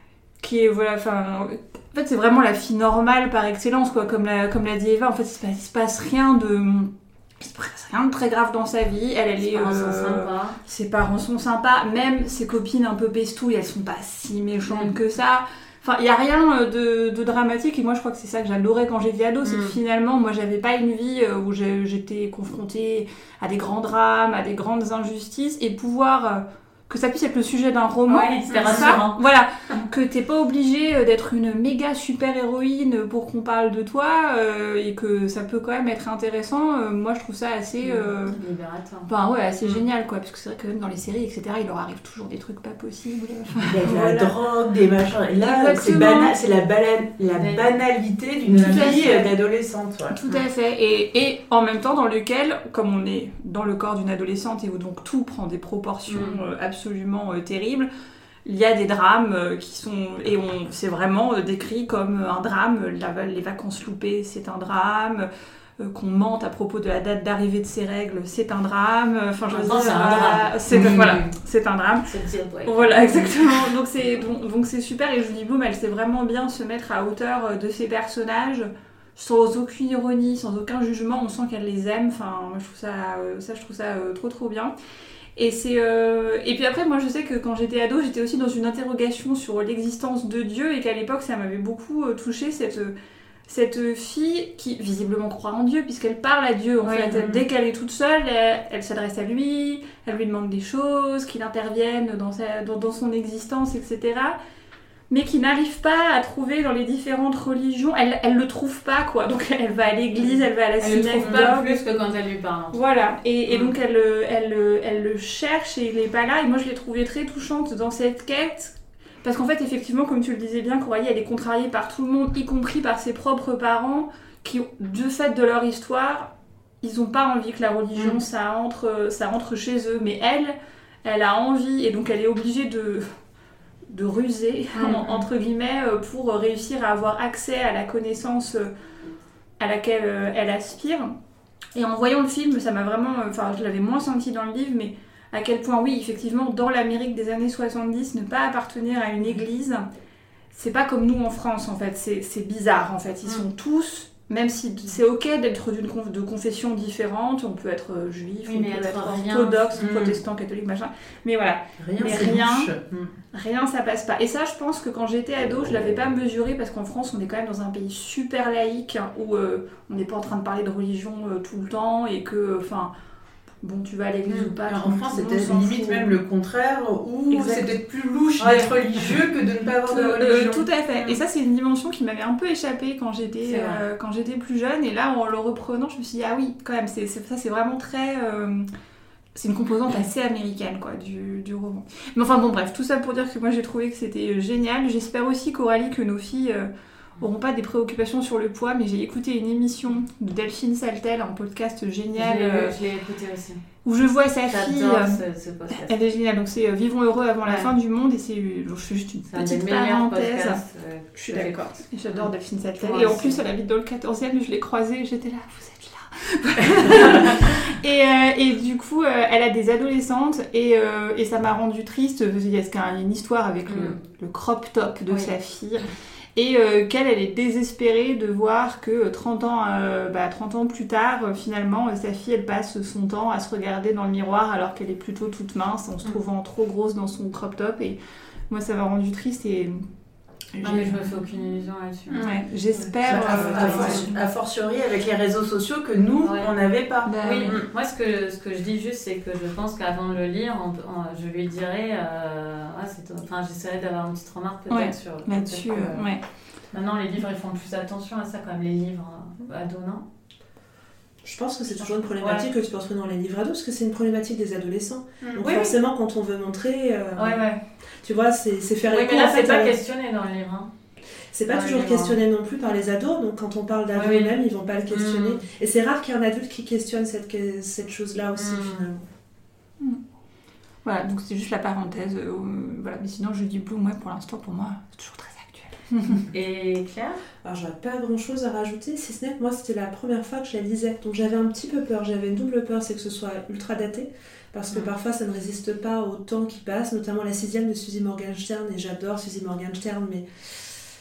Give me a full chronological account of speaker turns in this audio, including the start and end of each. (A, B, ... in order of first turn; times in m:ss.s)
0:00.4-0:38.4 A
0:09.4-0:10.6 B
0:14.7-0:14.9 B
0:19.4-0:19.8 B
0:28.1-0:29.2 B
0:37.8-0:39.1 B
0:39.1-0:44.3 A
0:43.7-0:50.2 C
0:45.4-0:46.3 A
0:47.4-0:47.7 B
0:48.5-0:49.3 A
0:48.5-0:49.1 B
0:50.1-0:57.9 A
0:56.1-0:56.4 B
0:58.4-1:05.3 A
1:05.8-1:12.1 A
1:09.5-1:11.3 B
1:10.7-1:11.2 C
1:12.1-1:13.5 B
1:12.6-1:24.7 A
1:25.4-1:32.9 A
1:33.5-1:44.4 A
1:36.8-1:37.3 B
1:37.2-1:37.4 C
1:45.1-1:51.8 A
1:50.8-1:52.8 B
1:52.7-2:06.3 A
2:06.8-2:13.0 A
2:08.0-2:08.2 B
2:13.9-2:18.7 A
2:14.8-2:15.2 B
2:19.6-2:21.1 A
2:21.8-2:29.8 A
2:30.5-2:42.7 A
2:38.4-2:39.8 B
2:39.8-2:40.2 C
2:41.8-2:43.1 C
2:43.3-2:52.9 A
2:53.6-2:56.2 A
2:54.5-3:00.6 C
2:57.3-2:57.8 A
2:58.4-2:58.8 B
2:59.9-3:08.7 A
3:03.4-3:03.8 B
3:09.4-3:16.7 A
3:17.2-3:22.8 A
3:22.2-3:23.6 B
3:23.8-3:30.6 A
3:24.5-3:25.9 B
3:27.4-3:27.7 B
3:29.3-3:32.3 B
3:31.2-3:45.8 A
3:32.8-3:33.4 B
3:36.9-3:37.4 B
3:43.7-3:44.0 B
3:46.4-3:58.0 A
3:58.5-3:59.8 A
4:00.6-4:01.1 A
4:00.6-4:02.3 B
4:02.1-4:04.1 A
4:03.0-4:07.7 C
4:03.1-4:04.2 B
4:06.2-4:06.5 B
4:07.1-4:07.6 A
4:07.2-4:16.1 B
4:14.7-4:16.2 A
4:16.7-4:20.0 B
4:21.2-4:27.4 D
4:22.2-4:22.5 B
4:25.2-4:25.7 B
4:27.2-4:27.6 B
4:28.0-4:29.8 D
4:28.9-4:30.7 B
4:31.3-4:39.0 D
4:31.5-4:32.2 B
4:34.0-4:34.4 B
4:34.9-4:35.4 B
4:38.3-4:38.9 B
4:40.8-4:46.2 A
4:46.3-4:47.2 B
4:47.4-5:00.2 D